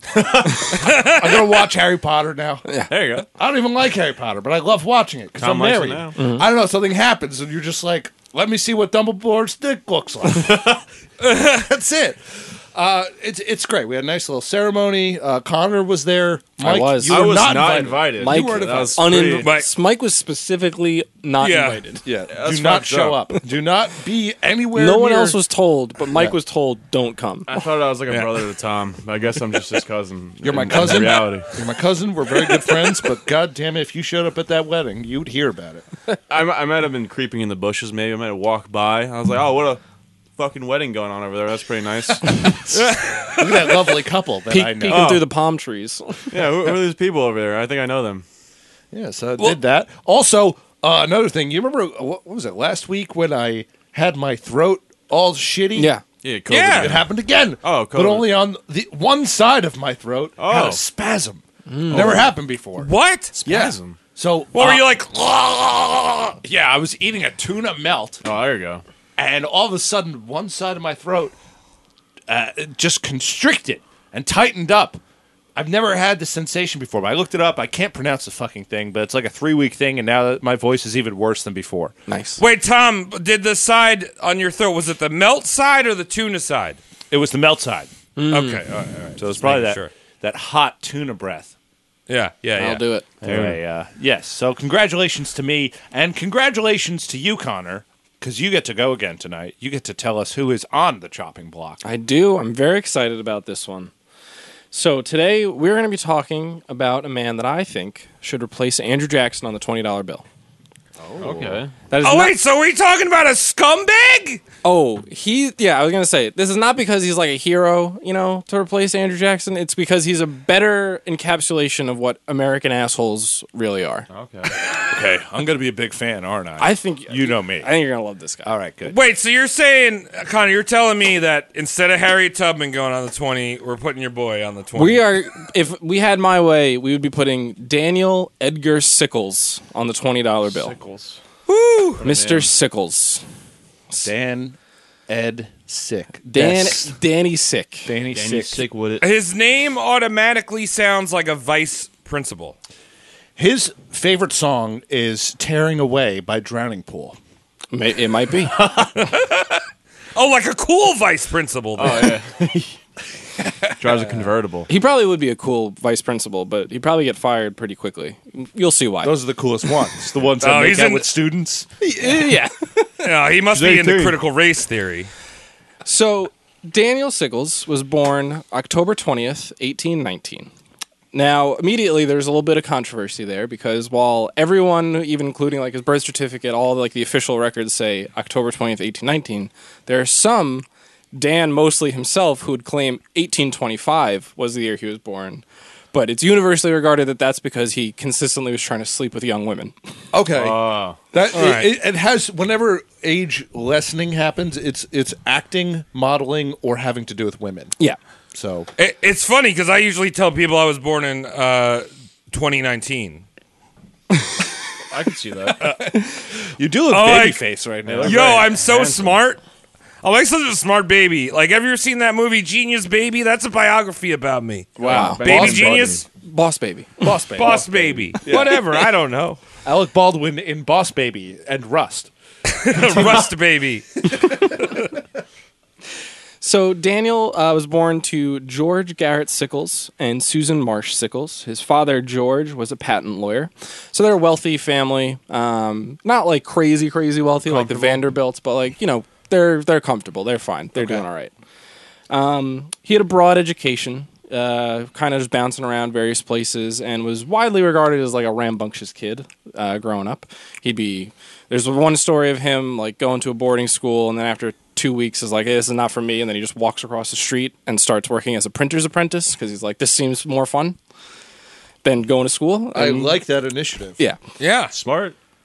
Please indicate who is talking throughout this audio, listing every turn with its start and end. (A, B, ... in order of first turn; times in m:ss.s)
0:00.2-0:02.6 A
0:02.6-0:02.9 B
0:02.9-0:03.3 C
0:03.2-0:19.5 A
0:05.4-0:06.2 C
0:06.2-0:06.4 B
0:11.2-0:11.6 D
0:16.6-0:17.5 B
0:17.1-0:19.4 C
0:18.2-0:22.0 B
0:19.4-0:19.7 D
0:21.4-0:21.8 D
0:22.0-0:25.4 A
0:22.3-0:23.3 C
0:24.7-0:27.6 B
0:27.5-0:31.5 C
0:28.1-0:28.5 D
0:30.4-0:35.8 A
0:36.3-0:39.8 C
0:40.4-0:42.7 C
0:42.7-0:43.5 D
0:43.3-0:45.2 A
0:44.5-0:46.3 B
0:44.9-0:45.3 C
0:46.3-0:48.2 C
0:48.9-0:55.9 A
0:55.7-0:56.0 B
0:56.2-0:57.1 C
0:56.5-0:57.0 D
0:56.7-1:02.9 A
0:57.6-0:58.3 C
1:00.4-1:00.8 C
1:01.6-1:02.2 B
1:01.9-1:02.3 C
1:02.8-1:03.3 D
1:03.4-1:04.0 C
1:03.4-1:08.2 A
1:04.5-1:06.3 D
1:08.2-1:08.8 C
1:09.2-1:11.3 A
1:12.3-1:15.0 A
1:15.6-1:21.9 A
1:22.1-1:22.4 B
1:22.4-1:26.8 D
1:27.1-1:27.9 A
1:28.2-1:28.6 B
1:28.3-1:29.9 D
1:29.2-1:31.5 A
1:32.1-1:32.8 D
1:32.6-1:33.1 B
1:33.2-1:33.6 C
1:33.2-1:41.8 A
1:41.8-1:43.9 B
1:44.7-1:50.2 B
1:51.0-1:51.6 A
1:51.2-1:51.7 C
1:51.9-1:52.4 B
1:52.0-1:54.4 D
1:54.6-2:04.0 B
2:04.1-2:04.5 C
2:04.8-2:07.7 A
2:06.6-2:08.5 B
2:08.4-2:09.0 A
2:08.9-2:15.1 D
2:14.7-2:20.7 B
2:20.4-2:21.2 C
2:21.5-2:22.0 D
2:22.0-2:22.5 C
2:22.0-2:23.2 B
2:24.0-2:24.6 A
2:25.1-2:27.0 A
2:26.3-2:27.9 B
2:27.8-2:28.7 A
2:28.1-2:29.0 C
2:29.0-2:32.6 D
2:33.4-2:37.2 A
2:37.7-2:38.6 B
2:38.6-2:39.6 D
2:40.1-2:42.2 D
2:41.8-2:42.8 C
2:43.8-2:44.7 C
2:44.7-2:49.1 B
2:49.0-2:51.7 A
2:50.4-2:51.1 D
2:51.8-2:53.1 B
2:53.0-2:55.1 D
2:53.5-2:54.2 C
2:55.8-3:00.5 B
3:01.1-3:19.7 B
3:20.1-3:27.8 A
3:20.3-3:21.0 C
3:21.3-3:21.7 D
3:28.3-3:28.7 A
3:28.8-3:33.2 D
3:34.9-3:35.6 C
3:35.6-3:38.5 A
3:36.9-3:37.4 D
3:37.8-3:39.2 C
3:38.0-3:39.4 D
3:40.0-3:46.0 D
3:44.8-3:45.9 A
3:44.8-3:46.0 C
3:44.8-3:45.2 B
3:46.1-3:47.2 B
3:47.0-3:48.6 A
3:47.3-3:49.4 D
3:47.4-3:48.1 C
3:49.6-3:52.1 A
3:52.5-3:54.8 D
3:52.7-3:53.2 A
3:56.4-4:11.3 B
4:07.4-4:08.0 C
4:12.1-4:30.8 B
4:31.8-4:33.2 B
4:32.7-4:34.0 A
4:34.4-4:34.7 D
4:34.7-4:35.2 C